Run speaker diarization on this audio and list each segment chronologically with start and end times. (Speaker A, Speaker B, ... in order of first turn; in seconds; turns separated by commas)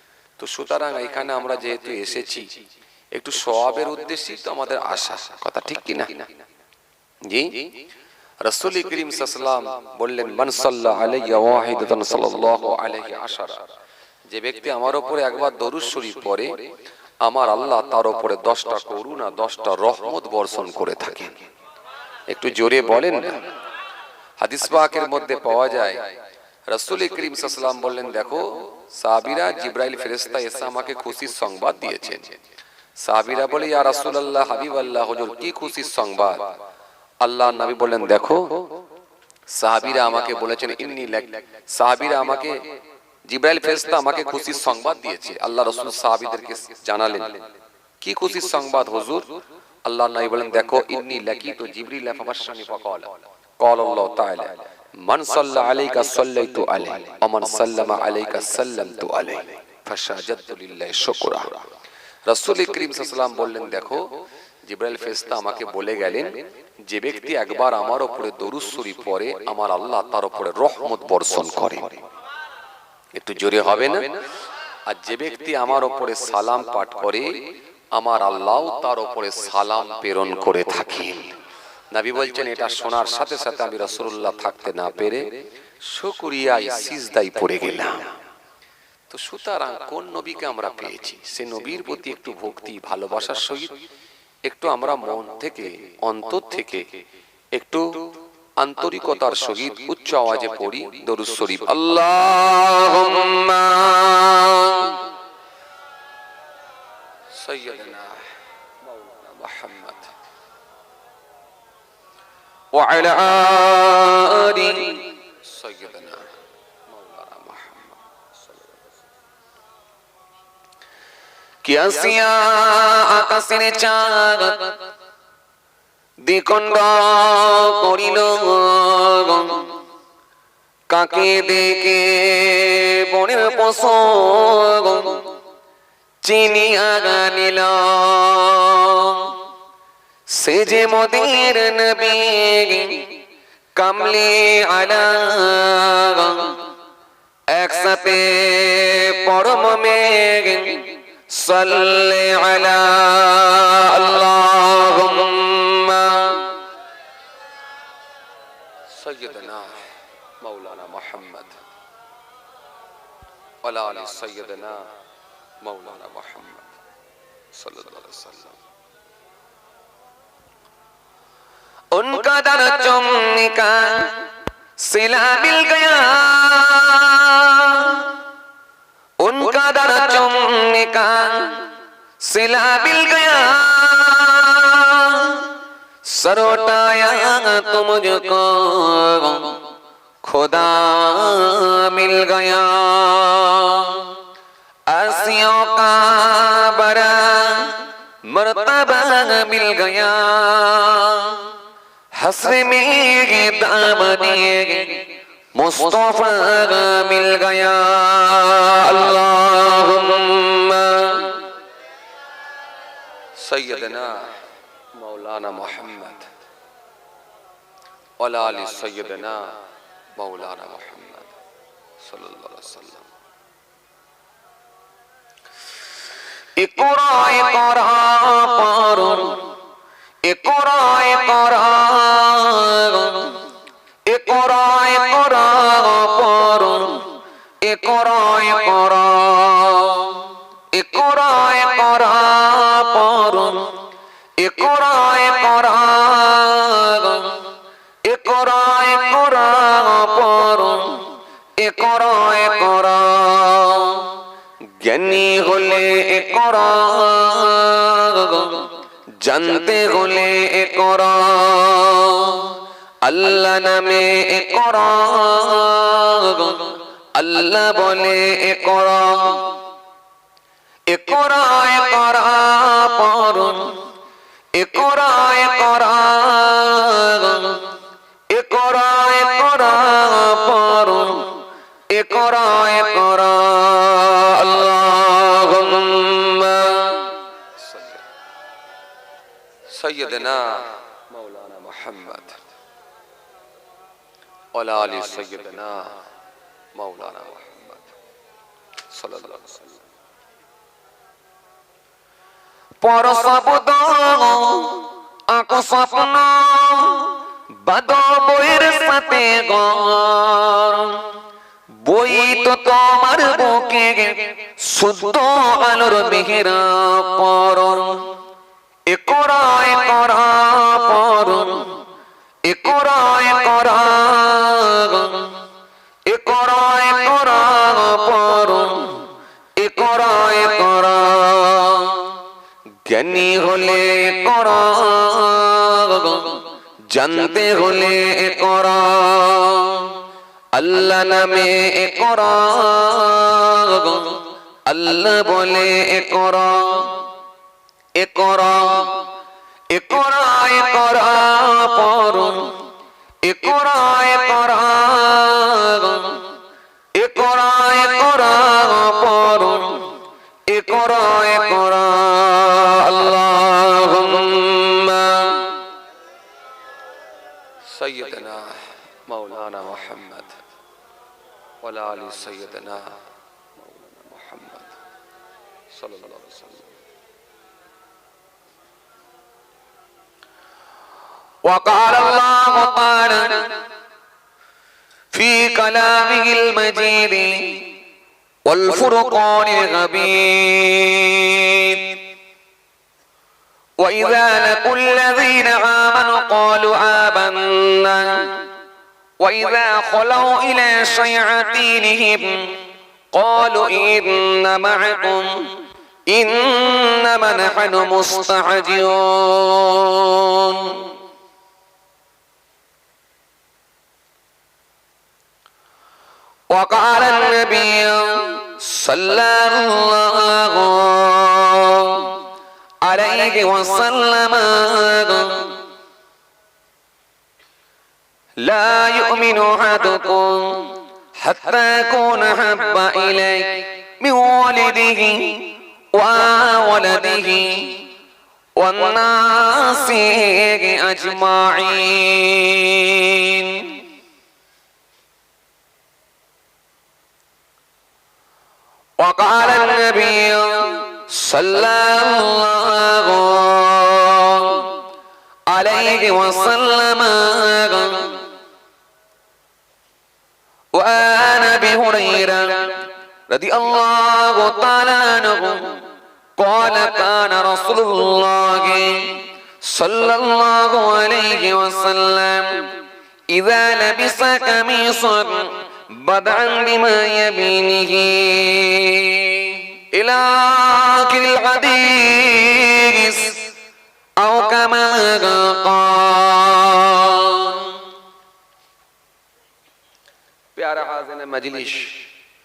Speaker A: 0.4-2.5, Speaker A: 3.1-6.3, Speaker A: 7.3-7.7, Speaker A: 8.4-13.6, Speaker A: 14.3-16.6, Speaker A: 17.2-21.4, Speaker A: 22.3-23.5, Speaker A: 24.4-26.1, Speaker A: 26.7-32.3, Speaker A: 33.0-36.5, Speaker A: 37.2-38.8, Speaker A: 39.5-42.6, Speaker A: 43.3-47.4, Speaker A: 48.0-61.7, Speaker A: 62.3-64.1, Speaker A: 64.6-72.0, Speaker A: 73.2-74.2, Speaker A: 74.9-77.4, Speaker A: 77.9-81.3, Speaker A: 81.9-85.3, Speaker A: 85.9-88.2, Speaker A: 89.1-93.8, Speaker A: 94.5-97.0, Speaker A: 97.5-102.2, Speaker B: 102.1-105.0, Speaker A: 107.4-108.2, Speaker A: 108.9-110.1, Speaker B: 112.8-115.1, Speaker A: 115.4-116.2, Speaker A: 117.0-117.9, Speaker B: 121.7-124.8, Speaker B: 126.3-129.7, Speaker A: 130.9-132.1, Speaker B: 131.0-135.3, Speaker A: 133.8-134.2, Speaker B: 136.2-139.4, Speaker B: 140.4-143.2, Speaker A: 140.6-140.9, Speaker B: 143.8-146.6, Speaker B: 147.5-156.6, Speaker A: 158.9-159.8, Speaker A: 160.4-161.5, Speaker A: 163.6-164.9, Speaker A: 165.6-166.7, Speaker A: 167.6-168.6, Speaker B: 171.9-174.3, Speaker B: 174.8-178.2, Speaker B: 179.2-181.7, Speaker A: 179.4-180.2, Speaker B: 182.3-185.6, Speaker B: 186.1-189.6, Speaker B: 190.2-194.2, Speaker B: 194.9-201.5, Speaker B: 202.2-211.5, Speaker A: 213.4-214.3, Speaker A: 215.0-216.3, Speaker A: 218.2-219.5, Speaker A: 220.2-221.3, Speaker A: 222.0-223.1, Speaker B: 226.6-229.6, Speaker B: 230.3-233.4, Speaker B: 234.1-243.8, Speaker B: 244.4-247.5, Speaker B: 248.1-254.2, Speaker B: 254.8-258.7, Speaker A: 259.2-259.5, Speaker B: 259.5-269.6, Speaker B: 270.9-273.8, Speaker B: 274.6-277.7, Speaker B: 278.3-287.2, Speaker A: 289.7-292.4, Speaker A: 294.5-295.9, Speaker A: 296.8-297.8, Speaker A: 298.9-299.8, Speaker B: 302.8-311.2, Speaker B: 311.9-318.2, Speaker B: 318.9-321.8, Speaker B: 322.5-325.4, Speaker B: 326.1-332.2, Speaker A: 332.9-333.3, Speaker B: 333.2-336.5, Speaker A: 336.9-337.8, Speaker B: 337.3-340.0, Speaker A: 340.6-341.5, Speaker B: 340.6-347.1, Speaker A: 344.7-345.3, Speaker B: 348.0-349.1, Speaker B: 349.7-352.6, Speaker B: 353.3-356.3, Speaker A: 353.3-353.6, Speaker B: 357.0-359.9, Speaker B: 360.5-365.6, Speaker A: 367.7-370.3, Speaker A: 371.6-372.9, Speaker A: 374.1-374.6, Speaker A: 375.7-376.6, Speaker B: 381.4-383.6, Speaker B: 385.1-387.8, Speaker B: 388.5-392.0, Speaker A: 388.6-389.0, Speaker B: 393.8-398.5, Speaker B: 399.2-402.6, Speaker B: 403.1-405.5, Speaker B: 406.1-410.9, Speaker B: 416.5-422.2, Speaker B: 422.9-425.6, Speaker B: 428.5-437.9, Speaker B: 438.6-443.8, Speaker B: 449.0-454.8, Speaker B: 455.5-458.2, Speaker B: 460.8-462.8, Speaker B: 463.3-465.8, Speaker B: 466.4-472.8, Speaker B: 473.3-483.5, Speaker B: 484.2-487.9, Speaker A: 490.6-492.0